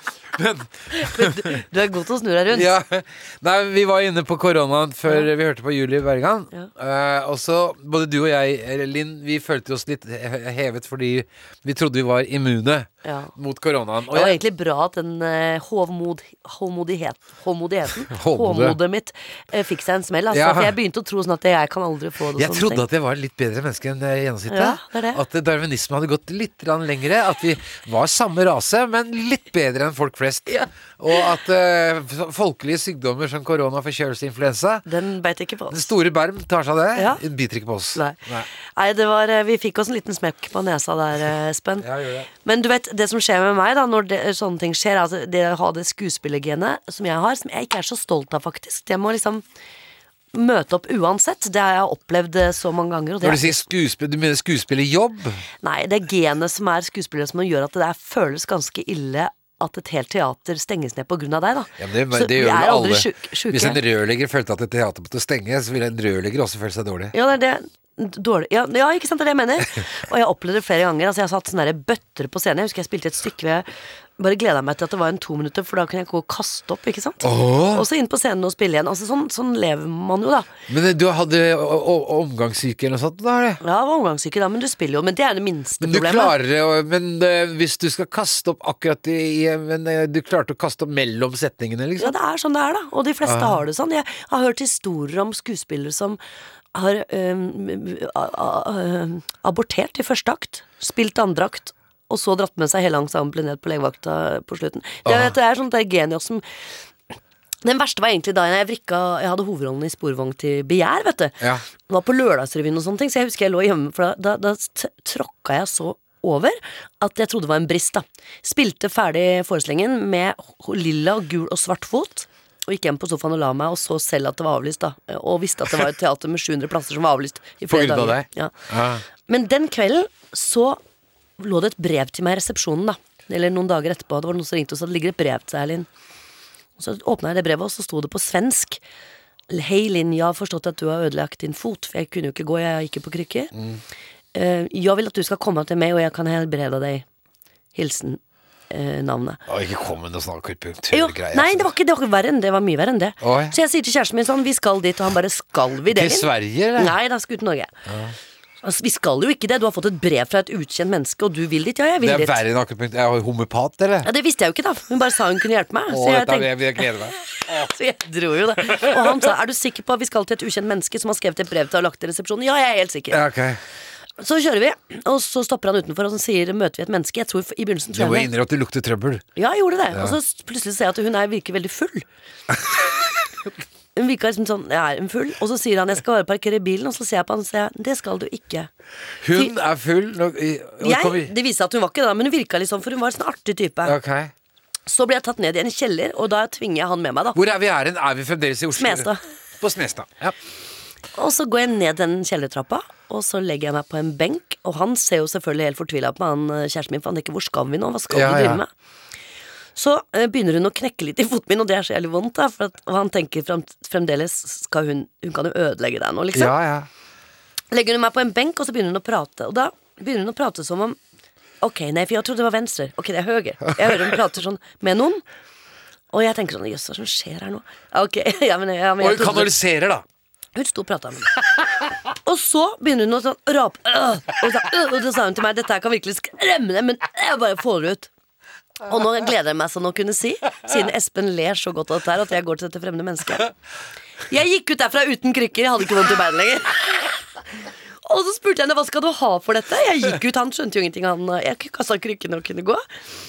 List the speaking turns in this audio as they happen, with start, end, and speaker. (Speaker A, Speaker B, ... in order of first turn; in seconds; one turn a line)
Speaker A: 0.3-1.6
Speaker B: 0.9-2.7
Speaker A: 2.5-14.4
Speaker B: 13.0-13.3
Speaker B: 14.1-22.9
Speaker A: 18.1-18.8
Speaker A: 20.3-20.8
Speaker A: 22.4-34.9
Speaker B: 24.5-25.2
Speaker B: 30.5-31.2
Speaker B: 34.9-35.9
Speaker A: 35.7-38.5
Speaker B: 37.0-37.2
Speaker B: 38.0-41.9
Speaker A: 41.8-42.3
Speaker B: 42.4-49.4
Speaker B: 50.3-53.6
Speaker A: 53.2-55.4
Speaker B: 55.6-63.8
Speaker A: 61.8-67.1
Speaker B: 67.1-73.7
Speaker B: 74.2-80.5
Speaker A: 77.2-77.9
Speaker A: 80.7-83.6
Speaker B: 83.6-86.3
Speaker A: 85.8-92.2
Speaker B: 92.0-96.2
Speaker A: 93.2-93.6
Speaker B: 96.7-106.4
Speaker A: 105.0-105.3
Speaker B: 107.6-128.6
Speaker A: 127.7-129.0
Speaker B: 129.3-130.8
Speaker B: 131.4-135.9
Speaker B: 136.8-138.8
Speaker B: 139.5-143.5
Speaker A: 143.5-143.8
Speaker B: 144.3-147.1
Speaker B: 147.8-149.4
Speaker A: 149.5-151.7
Speaker B: 150.9-157.7
Speaker A: 153.2-153.6
Speaker A: 155.9-156.9
Speaker A: 157.9-158.2
Speaker B: 158.6-162.4
Speaker A: 162.0-164.1
Speaker B: 164.0-166.9
Speaker A: 165.9-167.7
Speaker B: 167.4-173.2
Speaker A: 168.7-169.1
Speaker A: 173.1-173.6
Speaker B: 174.2-178.3
Speaker A: 177.9-179.3
Speaker B: 179.4-182.1
Speaker A: 179.9-180.2
Speaker B: 184.0-188.7
Speaker A: 189.2-191.3
Speaker B: 190.8-194.0
Speaker A: 193.8-194.3
Speaker B: 194.9-197.4
Speaker A: 197.3-200.3
Speaker B: 198.8-199.2
Speaker B: 201.2-208.7
Speaker A: 208.1-208.6
Speaker B: 209.8-216.6
Speaker A: 216.3-216.9
Speaker B: 217.7-221.0
Speaker B: 221.6-225.2
Speaker B: 226.1-229.6
Speaker A: 229.0-230.1
Speaker B: 230.6-231.3
Speaker B: 232.2-238.1
Speaker B: 238.9-243.5
Speaker B: 244.3-247.2
Speaker B: 248.1-252.8